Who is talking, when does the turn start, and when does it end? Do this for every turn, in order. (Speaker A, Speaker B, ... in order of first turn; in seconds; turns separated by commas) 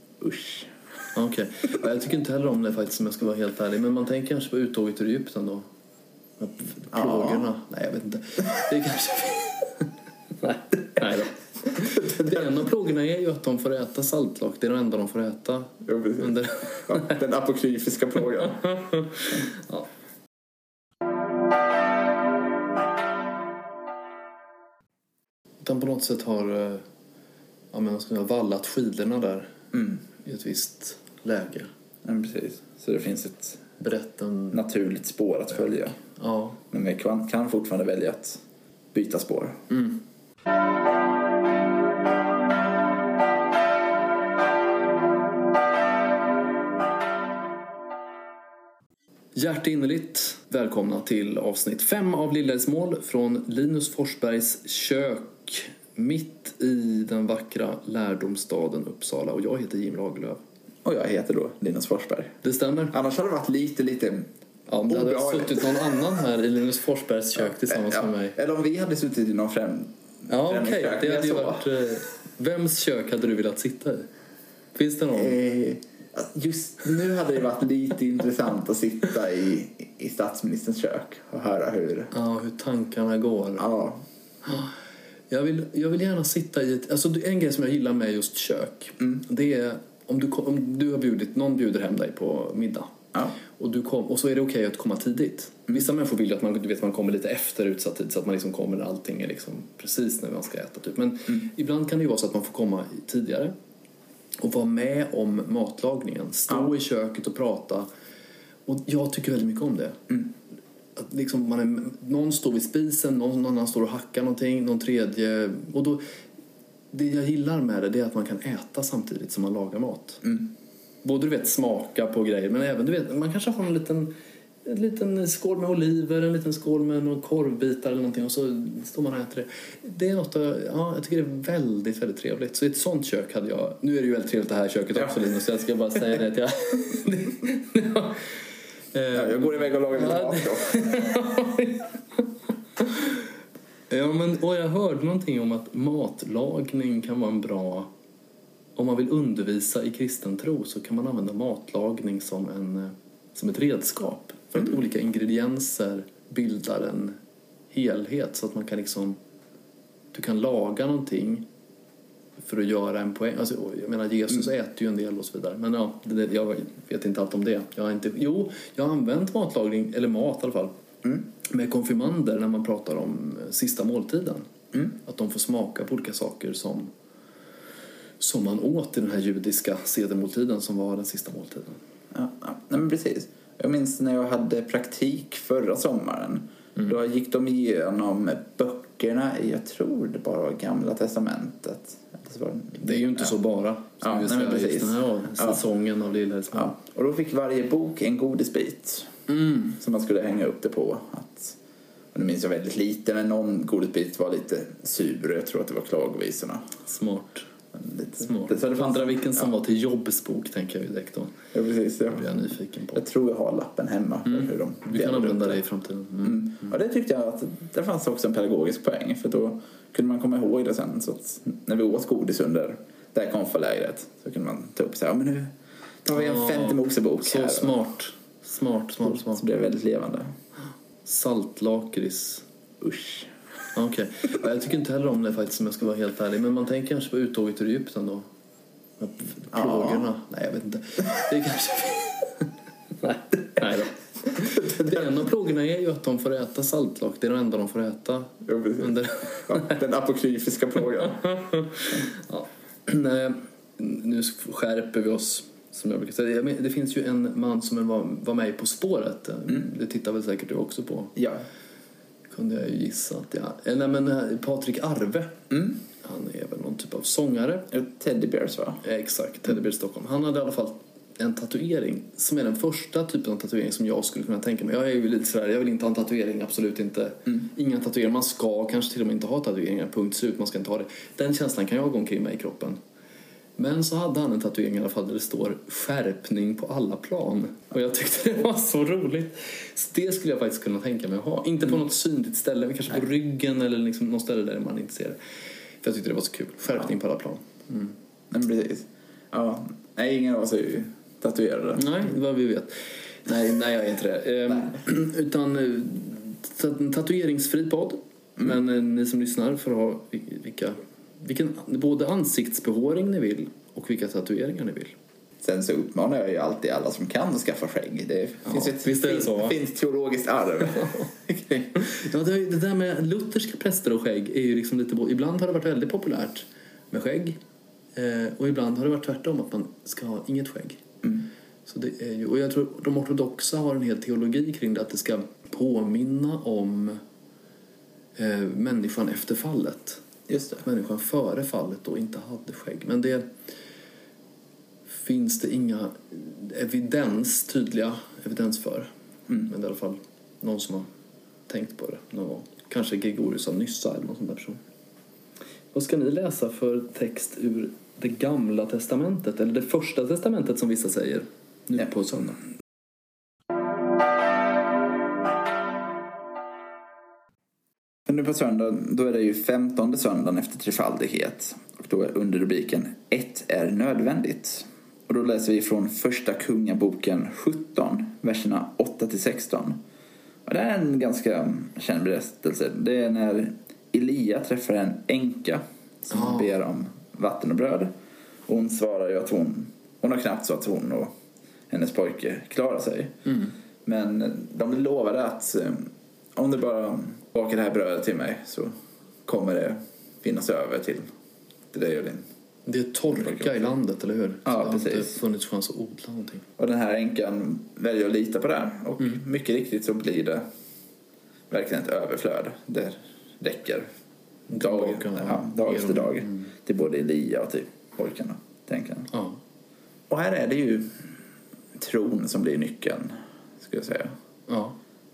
Speaker A: 0.2-0.7, Speaker B: 1.1-5.6, Speaker B: 6.4-9.9, Speaker A: 6.9-7.5, Speaker B: 10.4-17.2, Speaker A: 12.1-12.4, Speaker A: 15.8-18.7, Speaker B: 25.6-26.8, Speaker B: 27.7-29.6, Speaker A: 29.7-30.0, Speaker B: 30.2-31.7, Speaker A: 32.0-33.6, Speaker B: 33.8-34.6, Speaker A: 34.5-36.0, Speaker B: 36.2-36.6, Speaker A: 36.7-38.4, Speaker A: 38.9-39.6, Speaker B: 39.7-40.0, Speaker B: 49.3-60.4, Speaker A: 60.8-62.3, Speaker B: 62.4-62.9, Speaker A: 62.9-64.3, Speaker B: 64.7-68.3, Speaker A: 64.9-65.7, Speaker A: 67.7-71.7, Speaker B: 70.3-74.1, Speaker B: 74.7-75.4, Speaker A: 75.1-82.1, Speaker B: 82.1-83.6, Speaker A: 83.6-84.0, Speaker B: 84.4-84.7, Speaker B: 85.3-92.9, Speaker B: 93.5-103.5, Speaker B: 104.4-107.9, Speaker B: 108.7-110.0, Speaker B: 111.0-116.0, Speaker B: 116.9-120.2, Speaker B: 121.0-124.1, Speaker B: 124.6-138.2, Speaker B: 138.9-141.9, Speaker A: 139.1-141.1, Speaker B: 142.8-143.1, Speaker B: 143.9-147.9, Speaker B: 148.8-157.2, Speaker B: 157.7-159.2, Speaker B: 160.1-161.4, Speaker B: 162.4-170.7, Speaker B: 171.4-176.9, Speaker B: 178.2-181.8, Speaker A: 182.1-193.3, Speaker B: 192.8-196.8, Speaker A: 194.0-195.6, Speaker A: 196.5-199.1, Speaker B: 199.3-199.7, Speaker A: 199.6-201.6, Speaker A: 202.1-206.7, Speaker B: 206.8-207.5, Speaker A: 207.7-209.4, Speaker B: 208.2-211.3, Speaker A: 211.5-212.3, Speaker B: 212.1-213.0, Speaker A: 212.9-215.6, Speaker B: 214.3-216.7, Speaker A: 216.2-225.5, Speaker A: 226.0-227.8, Speaker B: 226.1-229.4, Speaker A: 229.0-230.3, Speaker B: 231.0-232.4, Speaker A: 232.8-233.3, Speaker B: 233.7-238.2, Speaker B: 239.0-242.5, Speaker A: 239.5-240.1, Speaker B: 243.0-249.8, Speaker A: 244.7-245.0, Speaker A: 248.4-251.3, Speaker B: 251.3-261.1, Speaker A: 261.1-261.4, Speaker B: 262.3-267.7, Speaker A: 265.5-265.8, Speaker A: 267.7-268.8, Speaker B: 268.8-282.8, Speaker B: 283.6-295.2, Speaker B: 295.8-297.9, Speaker A: 298.3-301.9, Speaker B: 301.8-314.9, Speaker A: 315.4-321.8, Speaker B: 318.4-319.6, Speaker B: 321.8-327.4, Speaker B: 327.9-330.8, Speaker B: 331.7-337.0, Speaker B: 338.2-340.0, Speaker A: 340.3-340.6, Speaker B: 340.6-343.3, Speaker B: 345.0-348.9, Speaker B: 349.4-350.9, Speaker B: 351.5-354.6, Speaker B: 355.7-362.4, Speaker A: 368.1-379.8, Speaker A: 380.4-387.9, Speaker B: 386.1-386.5, Speaker A: 388.5-391.1, Speaker A: 391.7-393.1, Speaker B: 393.2-393.5, Speaker A: 393.8-398.7, Speaker A: 399.2-401.1, Speaker A: 401.7-402.2, Speaker B: 402.6-406.4, Speaker A: 403.1-403.6, Speaker A: 404.4-405.1, Speaker A: 406.6-410.4, Speaker A: 411.5-413.9, Speaker B: 414.5-416.5, Speaker A: 414.5-419.1, Speaker B: 419.1-419.4, Speaker A: 420.1-421.0, Speaker A: 421.8-424.1, Speaker B: 424.5-424.8